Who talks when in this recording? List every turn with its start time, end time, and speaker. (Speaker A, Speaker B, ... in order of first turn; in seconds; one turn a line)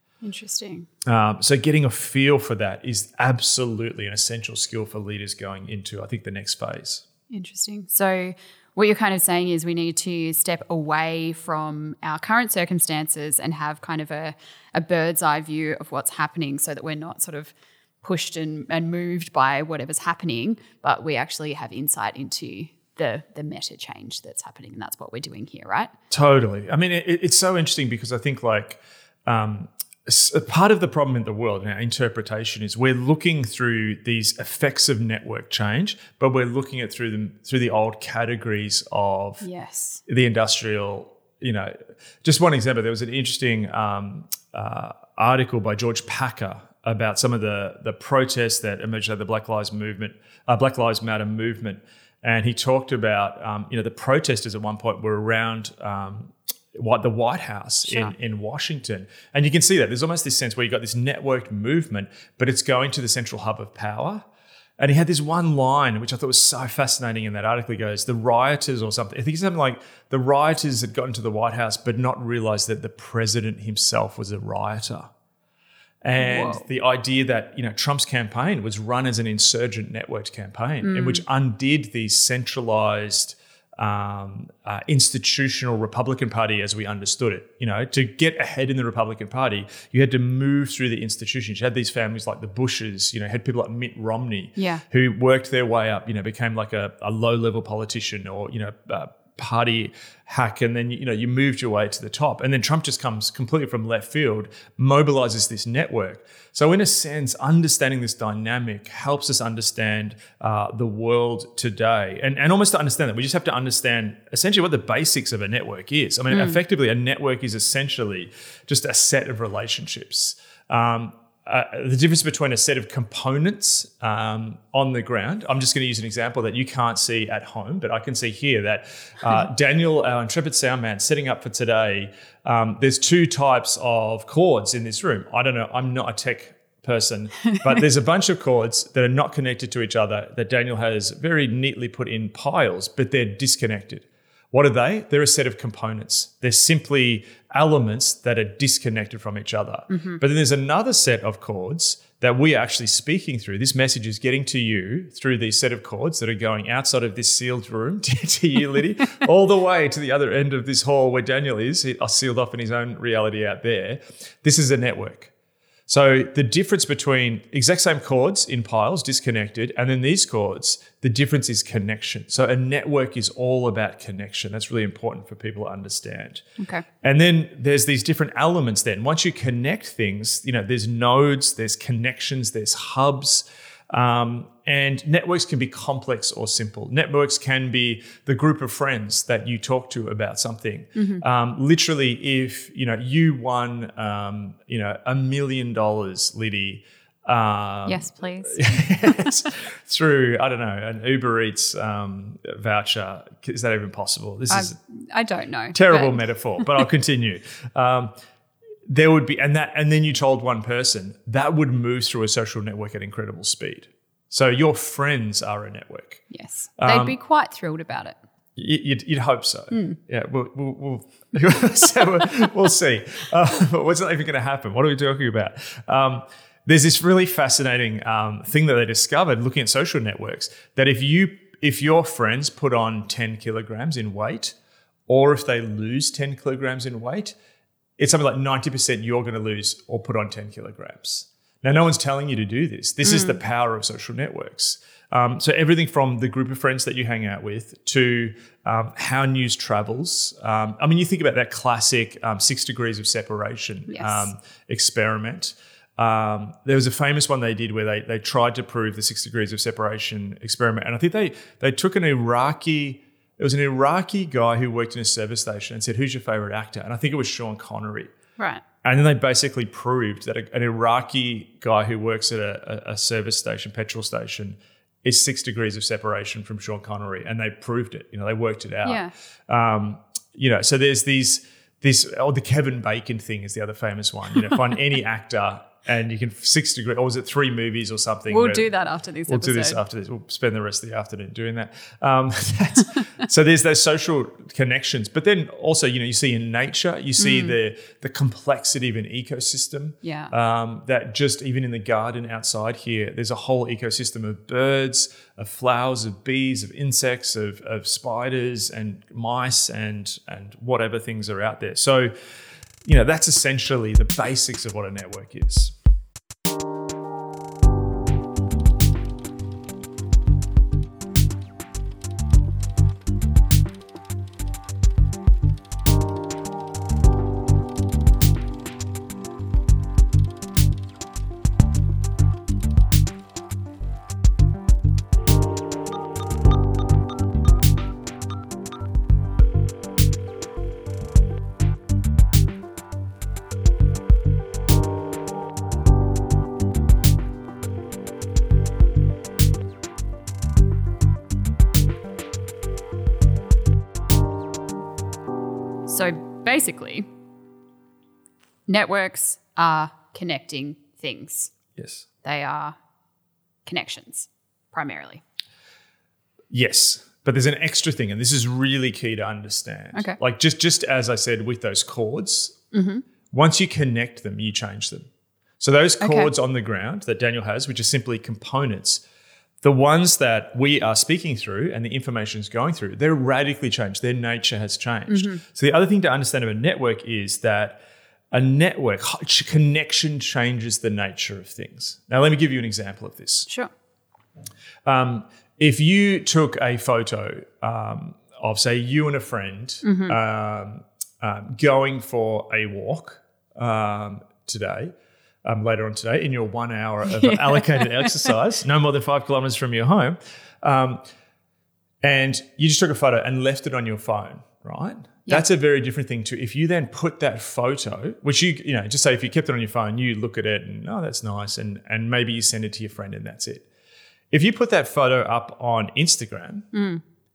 Speaker A: 0.2-0.9
Speaker B: 1.1-7.0
Speaker A: 7.3-25.9
Speaker B: 26.1-39.5
Speaker A: 39.4-40.0
Speaker B: 40.1-64.3
Speaker A: 57.9-58.1
Speaker B: 64.8-75.1
Speaker B: 76.0-165.3
Speaker A: 76.2-76.7
Speaker A: 80.8-81.2
Speaker A: 94.6-94.8
Speaker A: 116.3-116.6
Speaker A: 149.9-150.2
Speaker B: 165.9-176.4
Speaker A: 176.6-176.8
Speaker B: 177.0-204.8
Speaker A: 191.0-191.2
Speaker A: 197.9-198.9
Speaker A: 204.5-206.9
Speaker B: 205.7-208.1
Speaker B: 208.9-216.2
Speaker A: 216.3-218.2
Speaker B: 216.8-217.2
Speaker B: 218.6-234.6
Speaker A: 219.7-220.0
Speaker B: 235.1-237.3
Speaker B: 238.0-268.1
Speaker A: 243.1-243.4
Speaker A: 253.9-254.3
Speaker A: 268.4-268.6
Speaker B: 268.8-288.7
Speaker A: 278.8-279.1
Speaker A: 288.3-289.8
Speaker B: 289.3-312.1
Speaker A: 297.2-297.6
Speaker A: 300.0-300.3
Speaker B: 312.8-315.8
Speaker A: 355.9-357.1
Speaker A: 358.7-361.5
Speaker B: 361.8-362.1
Speaker A: 362.2-362.8
Speaker A: 363.7-365.2
Speaker B: 366.5-372.6
Speaker A: 372.7-373.0
Speaker B: 373.3-375.1
Speaker B: 375.6-379.0
Speaker A: 376.0-376.3
Speaker B: 379.6-387.8
Speaker A: 385.1-385.4
Speaker B: 388.3-393.5
Speaker B: 394.9-404.9
Speaker A: 399.8-400.2
Speaker B: 405.4-411.0
Speaker A: 407.1-408.3
Speaker B: 412.0-423.7
Speaker B: 424.3-426.7
Speaker A: 426.7-427.0